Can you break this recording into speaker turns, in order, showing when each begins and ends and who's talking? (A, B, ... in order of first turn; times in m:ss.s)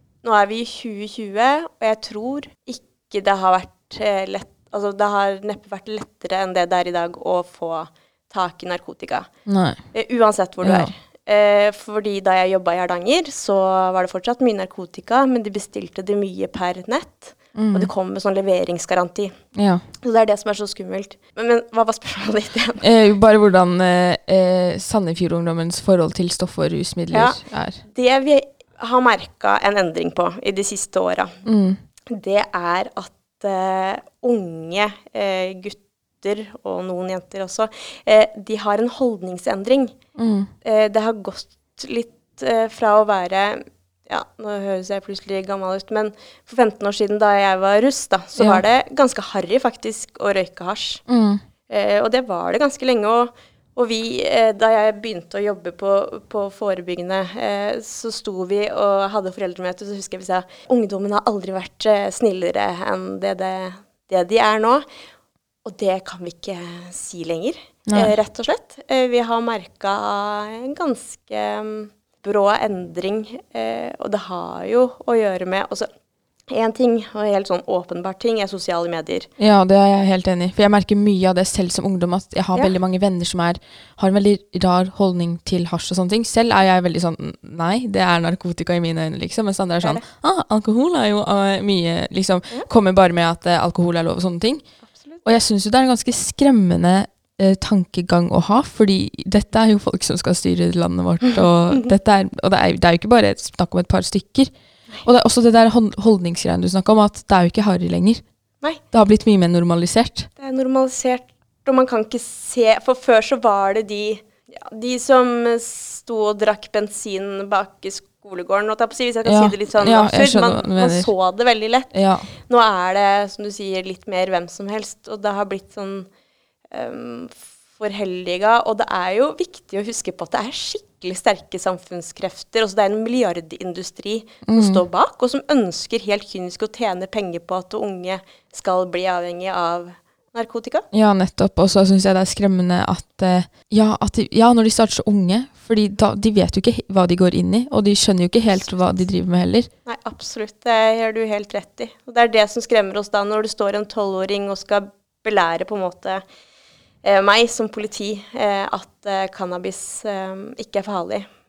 0:00.2-0:09.3 A
0:09.5-0:09.8 B
0:09.9-0:19.3 A
0:10.6-0:10.9 B
0:17.6-0:17.9 B
0:19.6-0:19.8 B
0:20.0-0:22.9 A
0:22.8-0:27.8 B
0:27.1-0:31.3 A
0:31.4-0:31.8 B
0:32.1-0:40.0 A
0:40.2-0:40.5 B
0:40.6-0:51.0 A
0:48.4-0:48.6 B
0:51.1-0:51.4 B
0:51.7-1:04.9 A
1:05.6-1:15.9 A
1:07.9-1:08.2 B
1:16.5-1:19.3 A
1:19.4-1:34.6 B
1:34.9-1:35.2 A
1:35.2-1:44.5 B
1:41.4-1:41.7 A
1:45.0-1:48.2 B
1:48.9-1:50.3 B
1:50.4-2:01.9 A
1:59.2-2:01.1 B
2:01.9-2:02.3 B
2:02.5-2:06.1 A
2:06.7-2:20.8 A
2:14.4-2:14.8 B
2:20.9-2:29.7 B
2:29.9-2:36.2 A
2:37.0-2:41.3 A